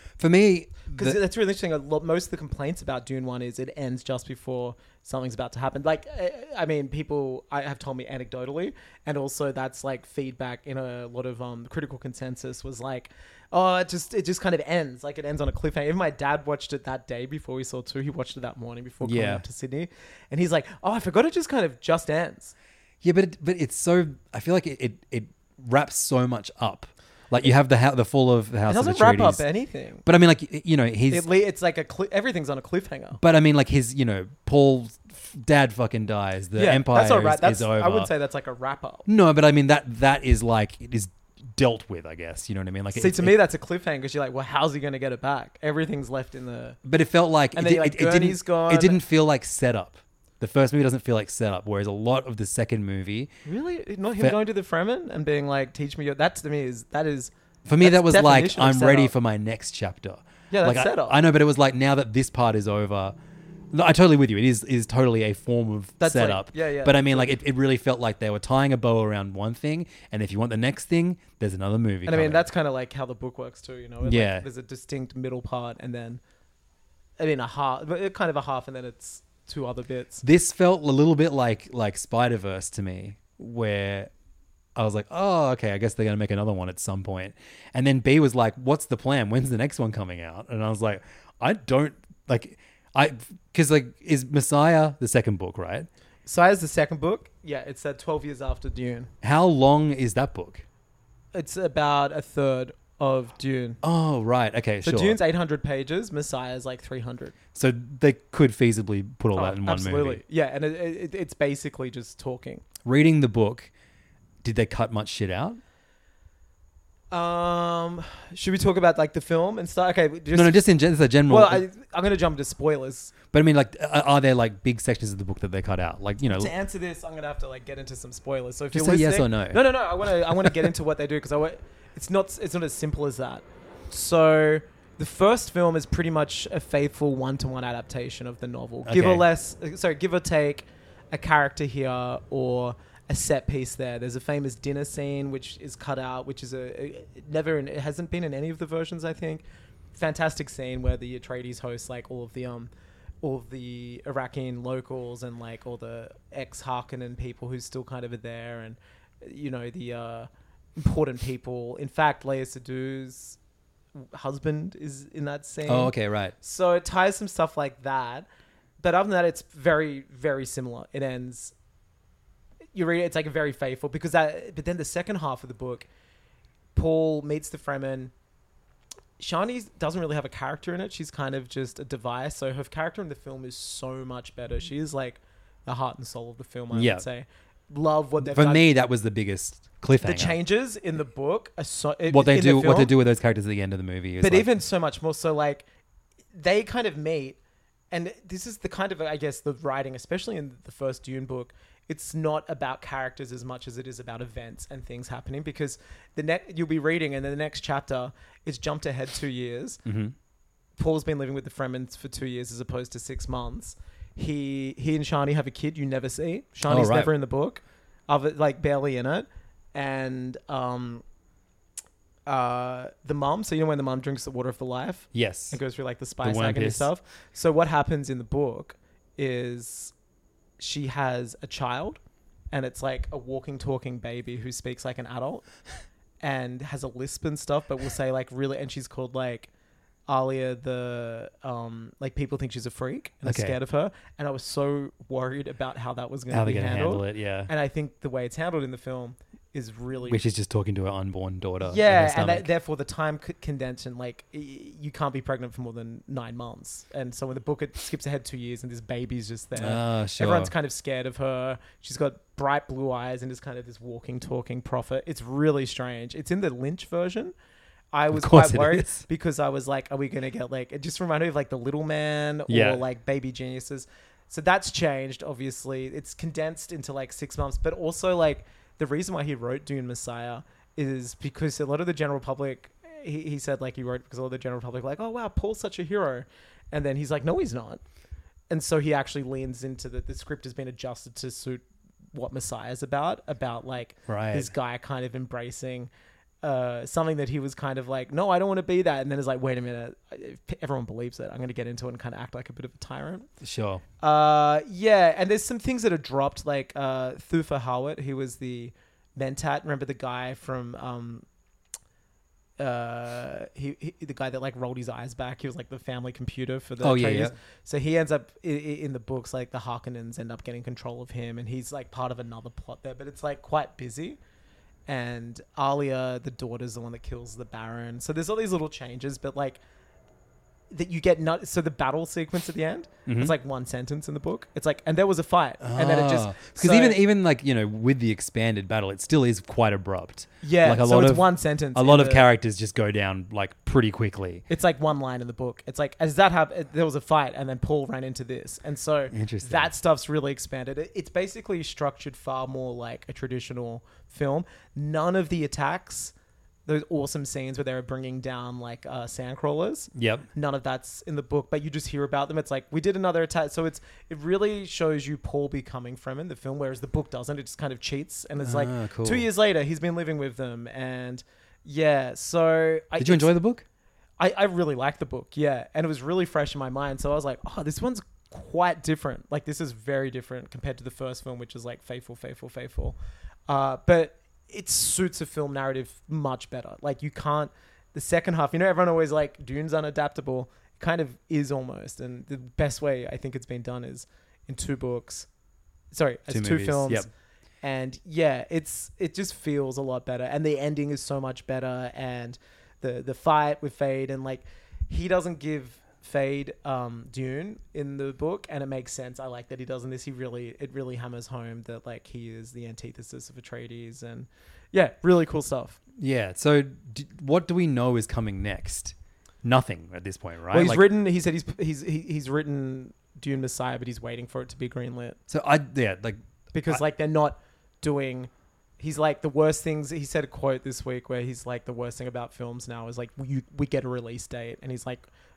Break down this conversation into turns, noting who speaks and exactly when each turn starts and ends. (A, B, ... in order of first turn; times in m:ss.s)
0:00.2-0:01.2 A
0:00.9-0:22.5 B
0:19.0-0:19.4 A
0:23.0-0:29.4 A
0:28.7-0:30.0 B
0:30.0-0:31.3 A
0:31.1-0:33.2 B
0:33.2-0:38.1 A
0:36.6-0:39.0 B
0:39.1-0:43.4 A
0:42.9-0:46.8 B
0:46.8-0:53.3 A
0:47.6-0:49.0 B
0:53.5-0:59.1 B
0:57.7-1:03.2 A
1:00.5-1:01.2 B
1:03.7-1:12.5 A
1:06.0-1:07.4 B
1:12.1-1:16.2 B
1:14.0-1:14.5 A
1:17.2-1:20.2 B
1:20.2-1:24.1 A
1:24.8-1:35.9 A
1:36.3-1:39.1 B
1:39.2-1:40.6 A
1:41.3-1:43.8 B
1:43.8-1:45.2 A
1:44.8-1:47.3 B
1:47.6-1:50.2 A
1:49.4-1:52.6 B
1:52.8-1:53.7 A
1:54.4-1:55.6 A
1:57.1-2:00.7 B
2:00.3-2:01.7 A
2:01.3-2:03.1 B
2:03.3-2:06.5 A
2:06.2-2:32.7 B
2:08.7-2:09.7 A
2:10.2-2:10.7 A
2:18.8-2:19.3 A
2:33.2-2:43.4 B
2:44.0-2:48.3 B
2:45.7-2:46.4 A
2:48.8-2:51.5 B
2:52.7-2:55.9 B
2:56.8-2:58.1 B
2:59.2-3:08.7 B
3:06.7-3:07.1 A
3:08.2-3:10.4 A
3:10.0-3:12.9 B
3:12.1-3:14.5 A
3:14.2-3:15.6 B
3:16.3-3:17.4 B
3:17.9-3:29.8 B
3:29.8-3:30.2 A
3:30.8-3:41.0 B
3:36.7-3:37.1 A
3:42.3-3:49.9 B
3:45.1-3:45.6 A
3:46.2-3:46.9 A
3:50.6-3:52.0 B
3:52.5-3:55.4 B
3:56.2-3:59.5 B
4:00.1-4:10.2 B
4:03.2-4:03.6 A
4:06.3-4:07.5 A
4:10.1-4:12.5 A
4:11.6-4:27.3 B
4:19.6-4:20.5 A
4:27.9-4:47.8 B
4:28.1-4:29.1 A
4:32.5-4:32.8 A
4:48.5-4:55.9 B
4:54.1-4:54.5 A
4:56.4-5:03.3 B
5:03.4-5:03.8 A
5:04.0-5:11.2 B
5:12.6-5:24.2 B
5:16.8-5:17.4 A
5:24.9-5:29.6 B
5:30.7-5:37.0 B
5:33.1-5:33.4 A
5:35.6-5:44.4 A
5:40.4-5:42.3 B
5:44.5-5:56.1 B
5:49.1-5:49.7 A
5:56.7-6:13.4 B
6:00.0-6:00.3 A
6:08.4-6:09.3 A
6:13.0-6:13.6 A
6:14.2-6:23.0 B
6:23.5-6:35.3 B
6:35.9-6:37.1 B
6:36.3-6:37.1 A
6:37.6-6:55.8 B
6:56.0-7:00.9 A
7:00.5-7:05.2 B
7:05.3-7:06.8 A
7:06.5-7:15.1 B